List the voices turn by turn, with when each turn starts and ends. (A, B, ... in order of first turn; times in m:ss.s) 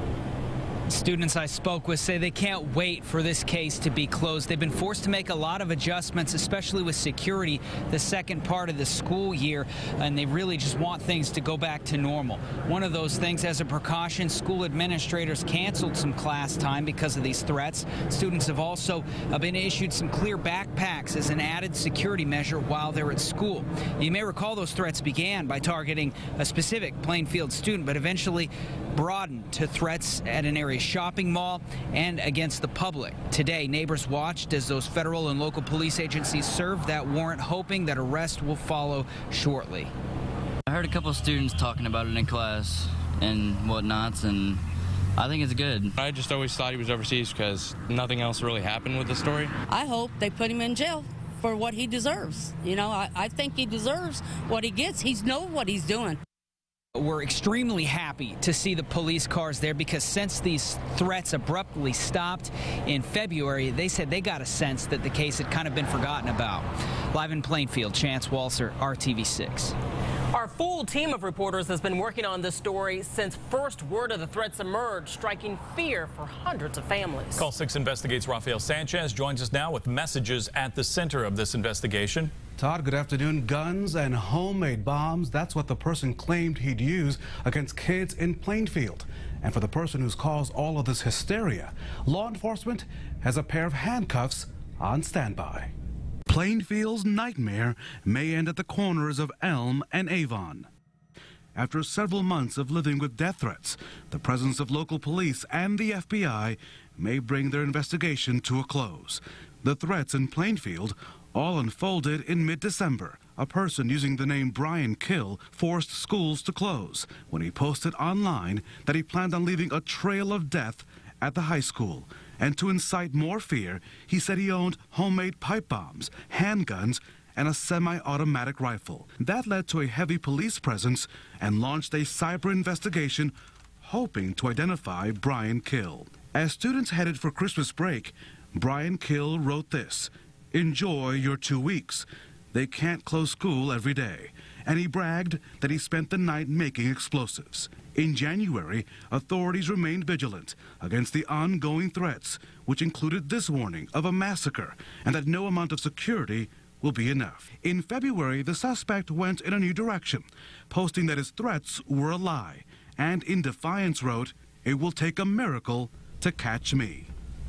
0:00.9-0:39.9 A
0:40.7-0:44.6 B
0:45.2-0:46.0 B
0:46.0-0:49.5 C
0:49.7-0:56.2 D
0:56.9-1:09.8 A
1:10.3-1:17.5 E
1:17.4-1:22.3 F
1:22.6-1:35.7 G
1:36.3-1:40.7 G
1:41.5-2:47.1 G